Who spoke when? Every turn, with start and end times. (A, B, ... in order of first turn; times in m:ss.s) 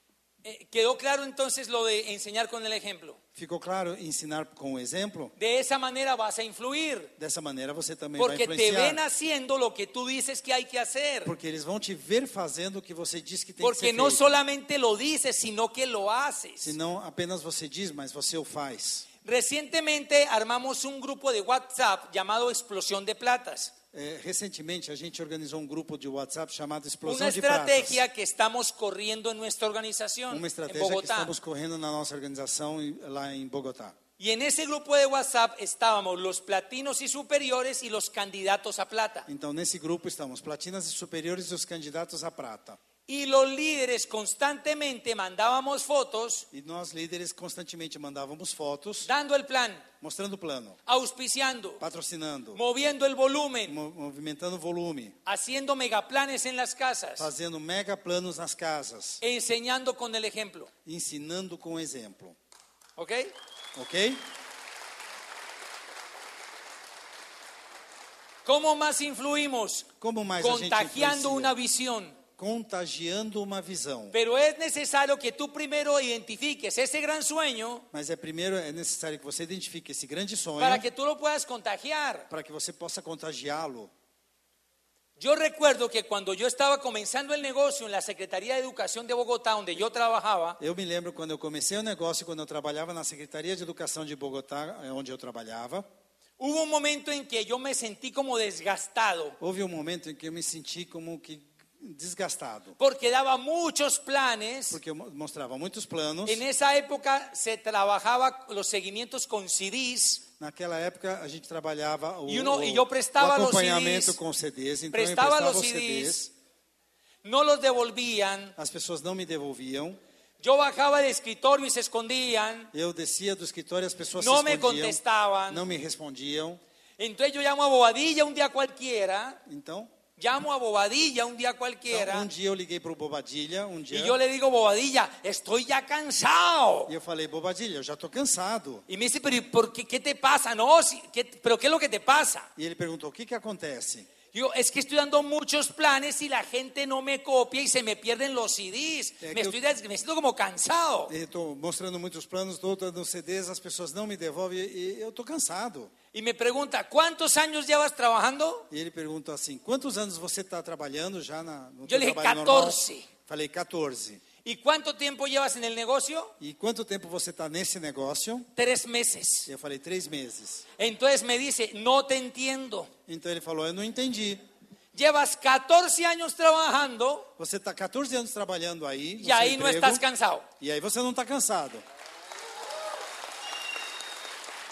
0:00.4-0:03.2 A
0:03.3-0:05.3 B
0:05.4-0:07.1 A
0:07.2-0:09.0 B
0:08.2-0:11.3 A
0:11.2-0:14.3 B
0:13.6-0:16.8 A
0:16.6-0:19.1 B
0:19.2-0:23.7 A
0:23.9-0:28.0 B
0:27.0-0:31.3 A
0:30.3-0:34.0 B
0:34.2-0:39.3 A
0:39.3-0:42.8 B
0:43.1-0:46.5 A
0:46.5-0:49.1 B
0:49.0-0:49.8 A
0:50.0-0:50.8 B
0:50.8-0:51.8 A
0:51.8-0:52.6 B
0:52.5-0:53.8 A
0:53.6-0:55.2 B
0:55.2-0:57.3 A
0:57.2-0:59.2 B
0:59.2-1:00.7 A
1:00.8-1:02.4 B
1:03.0-1:03.3 A
1:03.7-1:04.3 B
1:08.4-1:09.9 A
1:10.0-1:11.5 B
1:10.4-1:12.2 A
1:12.4-1:14.1 B
1:14.1-1:17.8 A
1:17.9-1:20.9 B
1:20.6-1:22.3 A
1:22.3-1:23.9 B
1:25.2-1:30.6 A
1:30.6-1:35.9 B
1:36.4-1:39.4 A
1:39.4-1:42.8 B
1:42.8-1:44.8 A
1:44.7-1:46.4 B
1:46.2-1:50.2 A
1:50.4-1:56.3 B
1:52.3-1:54.2 A
1:54.9-1:56.2 A
1:57.2-1:58.5 A
1:58.6-2:00.0 B
2:00.4-2:02.7 A
2:02.7-2:06.6 B
2:04.2-2:05.6 A
2:07.0-2:09.4 A
2:09.4-2:09.9 B
2:10.2-2:12.3 A
2:11.9-2:14.2 B
2:13.9-2:16.9 A
2:16.8-2:18.8 B
2:18.9-2:22.5 A
2:22.6-2:24.1 B
2:24.3-2:31.1 A
2:29.2-2:29.6 B
2:31.1-2:35.9 B
2:36.1-2:38.7 A
2:38.7-2:44.2 B
2:41.9-2:43.1 A
2:44.4-2:46.3 A
2:46.4-2:48.5 B
2:48.6-2:49.5 A
2:49.4-2:50.7 B
2:50.8-2:52.9 A
2:53.1-2:54.4 B
2:54.9-2:57.3 A
2:57.4-3:00.0 B
2:59.2-3:00.5 A
3:00.6-3:01.8 B